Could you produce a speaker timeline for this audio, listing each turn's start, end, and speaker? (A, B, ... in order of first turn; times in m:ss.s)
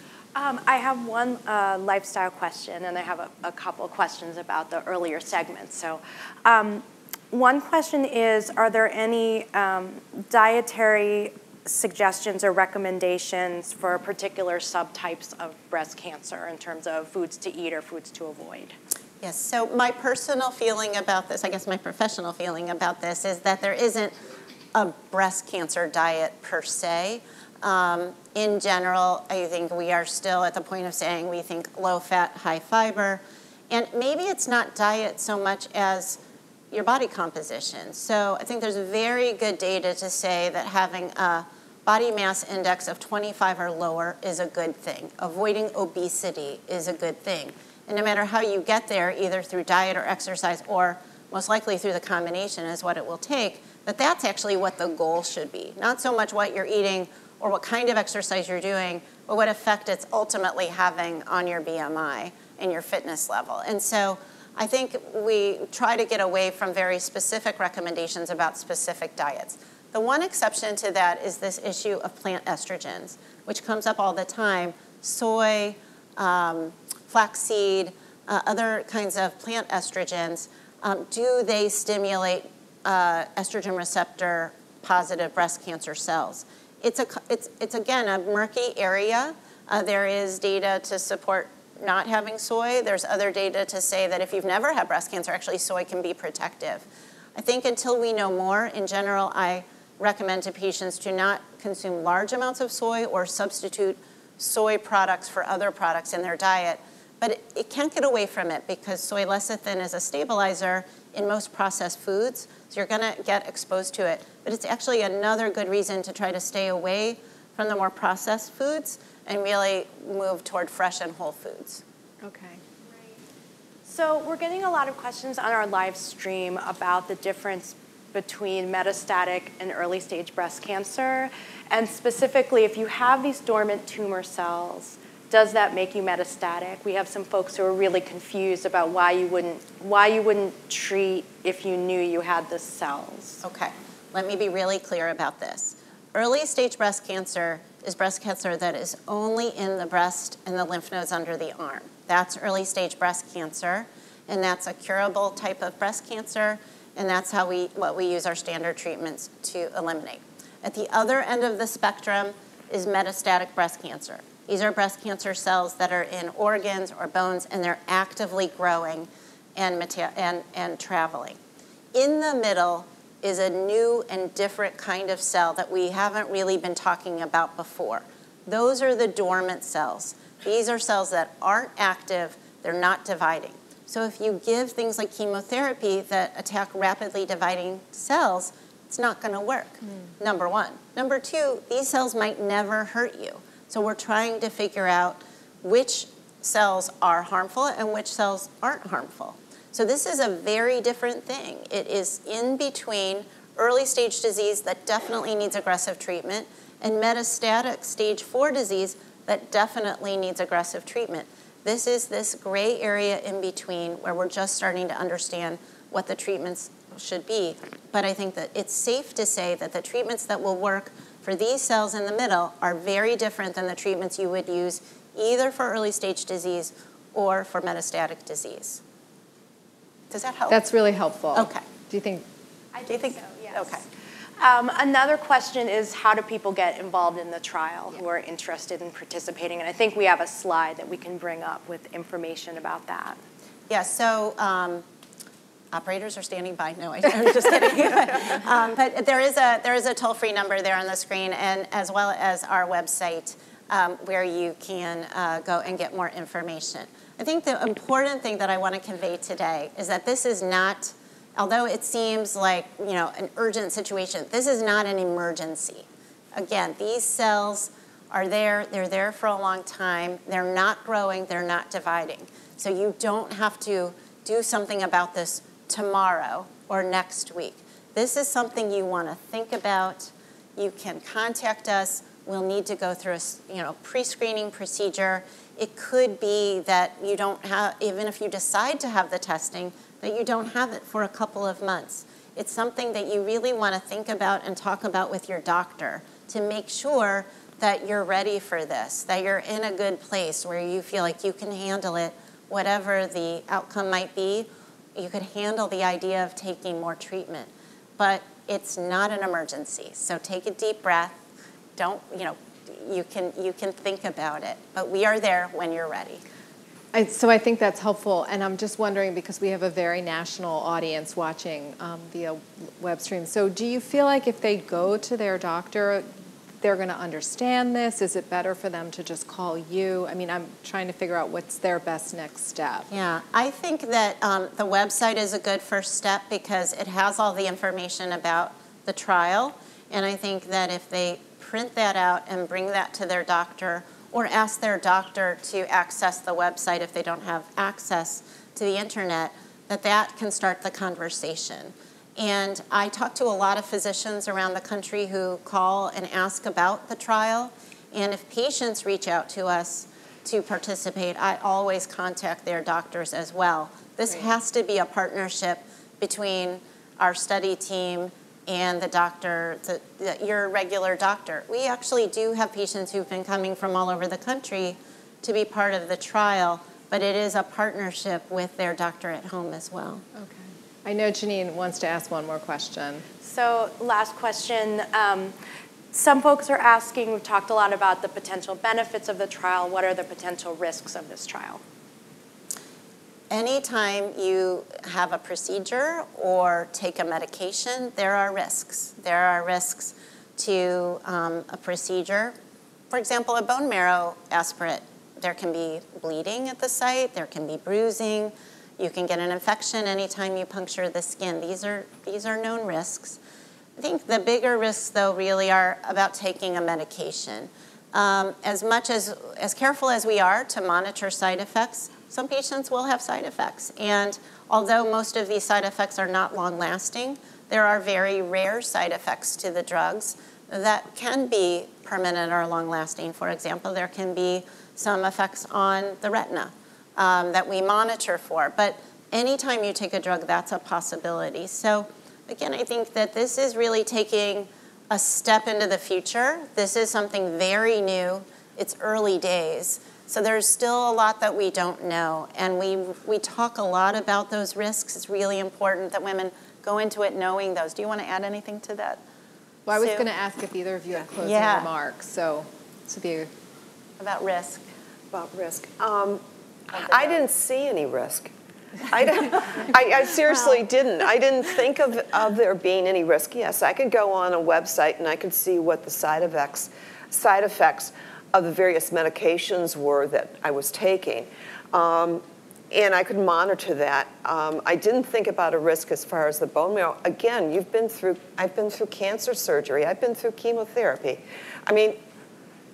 0:00.4-0:18.7 A
0:19.2-0:24.2 B
0:24.7-0:36.2 B
0:36.7-2:01.8 B
2:02.2-2:02.6 C
2:03.9-2:23.4 A
2:23.4-2:51.4 B
2:51.9-3:48.8 B
3:50.1-3:50.6 B
3:50.5-3:52.2 C
3:51.3-3:51.6 B
3:52.9-3:53.8 B
3:53.2-3:53.5 A
3:54.4-4:03.2 A
4:03.7-4:04.9 B
4:05.7-5:11.2 B
5:11.8-5:16.2 B
5:16.9-5:26.1 C
5:26.6-5:32.9 C
5:32.9-6:20.0 B
6:20.2-6:23.0 C
6:23.2-6:25.4 A
6:25.9-6:31.6 A
6:33.3-6:42.4 B
6:42.9-6:53.2 B
6:53.8-7:39.0 B
7:39.7-7:43.3 C
7:39.7-7:40.1 B
7:41.2-7:41.7 B
7:44.0-7:44.6 B
7:45.1-7:48.3 D
7:46.7-7:47.2 B
7:48.8-8:12.0 D
7:50.3-7:50.6 B